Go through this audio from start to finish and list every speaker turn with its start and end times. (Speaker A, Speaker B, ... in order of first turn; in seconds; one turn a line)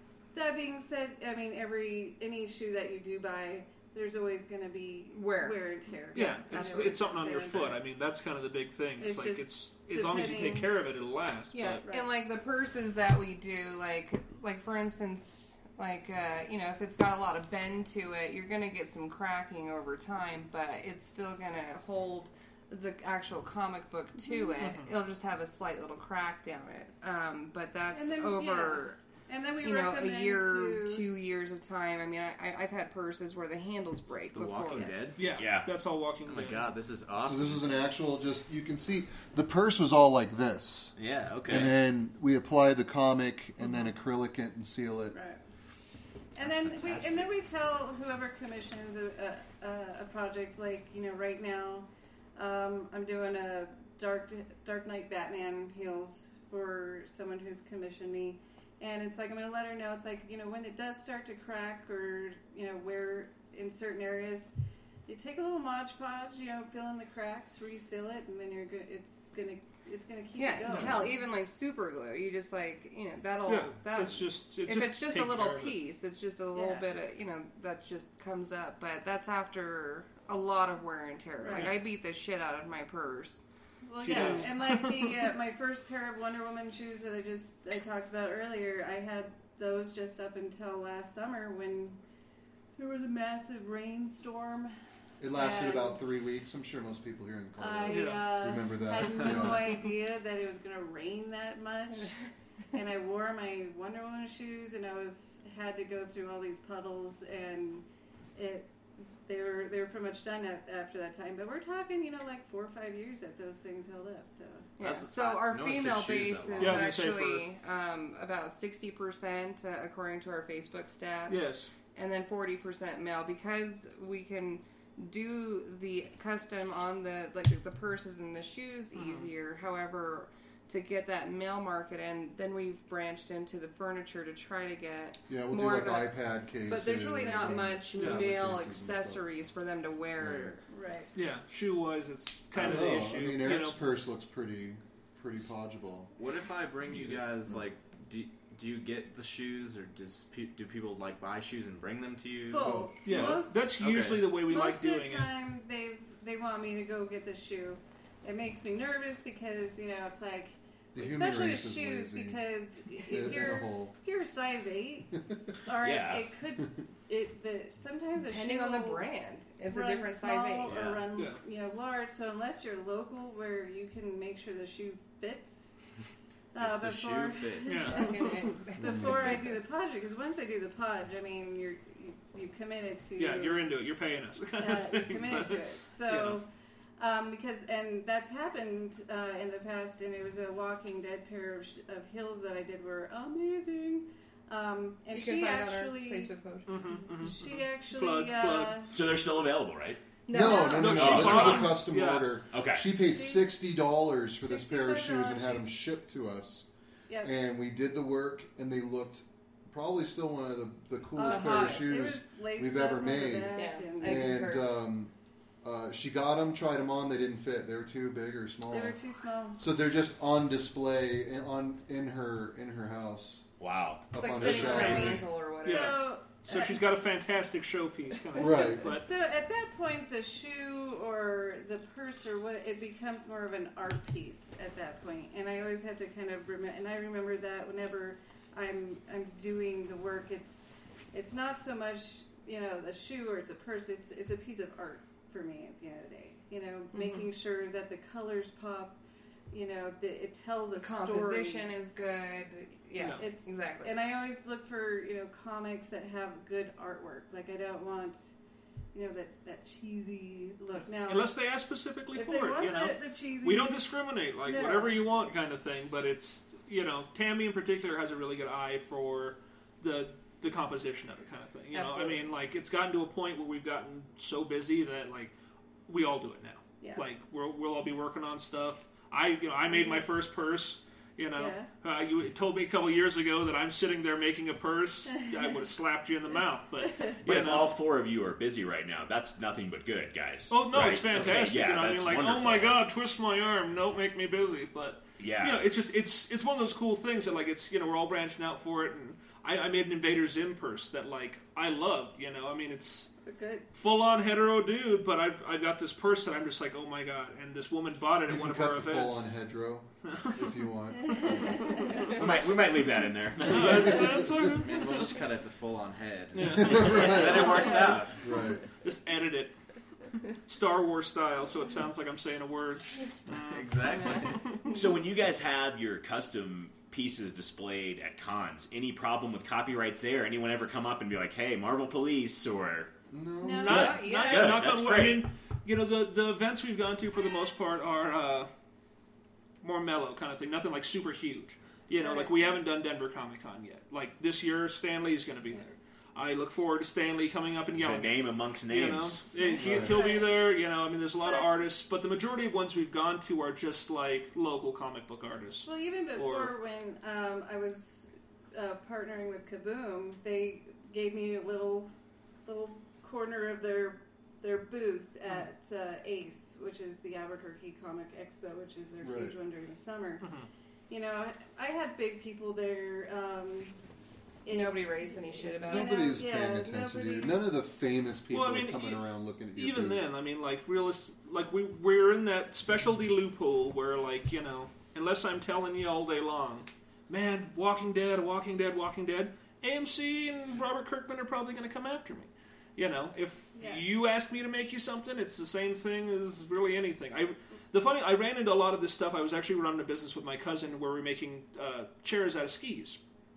Speaker A: 0.3-7.8
Speaker B: 5.1-5.6
Speaker C: 6.1-11.8
Speaker B: 6.2-7.0
Speaker A: 9.0-10.7
Speaker B: 11.5-29.0
Speaker A: 11.8-12.1
Speaker C: 24.6-25.0
Speaker A: 27.9-31.1
Speaker B: 29.6-35.1
Speaker D: 34.1-35.3
Speaker C: 35.2-36.7
Speaker E: 35.3-35.7
Speaker D: 36.2-37.9
Speaker F: 37.2-45.2
Speaker D: 41.0-41.8
Speaker A: 45.1-45.4
Speaker A: 46.4-64.5
Speaker D: 46.5-47.2
Speaker A: 65.1-71.1
Speaker B: 70.4-83.4
Speaker C: 73.5-75.8
Speaker A: 76.5-76.9
Speaker A: 81.4-81.7
Speaker C: 81.5-81.8
Speaker A: 83.8-92.0
Speaker C: 84.0-85.2
Speaker B: 84.1-84.5
Speaker A: 92.8-94.7
Speaker F: 95.2-99.8
Speaker A: 95.3-96.3
Speaker A: 97.6-102.2
Speaker C: 97.9-98.4
Speaker A: 102.7-107.8
Speaker A: 108.4-108.7
Speaker A: 109.2-114.7
Speaker B: 114.8-136.1
Speaker D: 114.8-117.0
Speaker C: 116.6-117.5
Speaker C: 121.3-121.7
Speaker C: 128.9-129.3
Speaker F: 135.3-139.2
Speaker B: 136.7-140.6
Speaker C: 138.0-138.2
Speaker F: 140.2-140.5
Speaker A: 140.7-141.1
Speaker C: 141.2-143.8
Speaker F: 142.6-146.1
Speaker D: 146.2-154.3
Speaker A: 152.5-153.7
Speaker F: 152.6-152.9
Speaker C: 153.1-155.3
Speaker A: 154.4-169.1
Speaker F: 160.9-162.4
Speaker F: 163.0-163.9
Speaker E: 165.8-166.3
Speaker B: 168.2-170.8
Speaker A: 169.7-175.8
Speaker D: 170.7-171.1
Speaker A: 176.5-183.7
Speaker D: 176.6-178.0
Speaker C: 177.7-178.0
Speaker B: 177.9-179.2
Speaker C: 183.2-186.4
Speaker A: 184.6-196.3
Speaker B: 195.1-196.8
Speaker C: 196.7-198.8
Speaker A: 196.9-199.0
Speaker E: 198.9-200.0
Speaker B: 200.3-201.4
Speaker F: 200.3-206.7
Speaker A: 200.4-200.8
Speaker C: 200.7-202.4
Speaker E: 200.9-201.8
Speaker E: 202.5-202.9
Speaker A: 202.9-203.5
Speaker A: 204.4-206.0
Speaker F: 207.2-219.0
Speaker A: 211.2-214.5
Speaker B: 211.2-212.1
Speaker B: 213.5-214.8
Speaker A: 218.7-219.6
Speaker F: 219.6-223.4
Speaker E: 223.6-224.9
Speaker F: 224.1-225.3
Speaker B: 224.2-226.0
Speaker C: 224.6-229.1
Speaker A: 225.6-226.8
Speaker F: 228.4-228.9
Speaker A: 228.4-249.0
Speaker B: 246.9-247.3
Speaker A: 249.5-251.7
Speaker B: 250.8-253.9
Speaker C: 253.0-253.2
Speaker A: 253.2-258.4
Speaker A: 258.9-261.3
Speaker C: 261.0-275.3
Speaker A: 262.1-263.8
Speaker A: 264.4-265.0
Speaker B: 271.7-272.3
Speaker C: 275.9-287.8
Speaker A: 279.7-280.1
Speaker A: 281.4-281.7
Speaker A: 285.1-285.6
Speaker A: 286.9-287.2
Speaker E: 287.2-292.8
Speaker C: 290.5-303.1
Speaker E: 295.2-295.6
Speaker A: 303.2-303.7
Speaker C: 303.7-309.2
Speaker F: 308.3-311.6
Speaker C: 310.1-310.4
Speaker A: 310.9-312.2
Speaker C: 311.7-312.2
Speaker E: 312.0-314.2
Speaker C: 313.5-315.1
Speaker F: 313.5-314.5
Speaker D: 314.5-318.3
Speaker C: 316.3-318.1
Speaker F: 316.5-317.6
Speaker F: 318.1-318.6
Speaker C: 318.8-319.5
Speaker C: 320.3-324.7
Speaker D: 323.3-324.6
Speaker E: 324.6-332.9
Speaker F: 333.1-333.8
Speaker A: 333.4-334.0
Speaker C: 333.6-338.5
Speaker E: 333.7-335.2
Speaker B: 333.7-334.6
Speaker C: 339.6-356.5
Speaker A: 342.0-342.5
Speaker E: 347.8-349.2
Speaker A: 349.4-350.4
Speaker F: 349.6-350.0
Speaker A: 351.2-351.6
Speaker A: 355.6-361.9
Speaker A: 362.5-370.3
Speaker F: 369.0-369.4
Speaker C: 370.2-370.5
Speaker A: 370.9-373.8
Speaker A: 374.4-377.6
Speaker B: 374.5-376.1
Speaker F: 375.7-380.1
Speaker C: 378.3-403.0
Speaker A: 393.6-393.8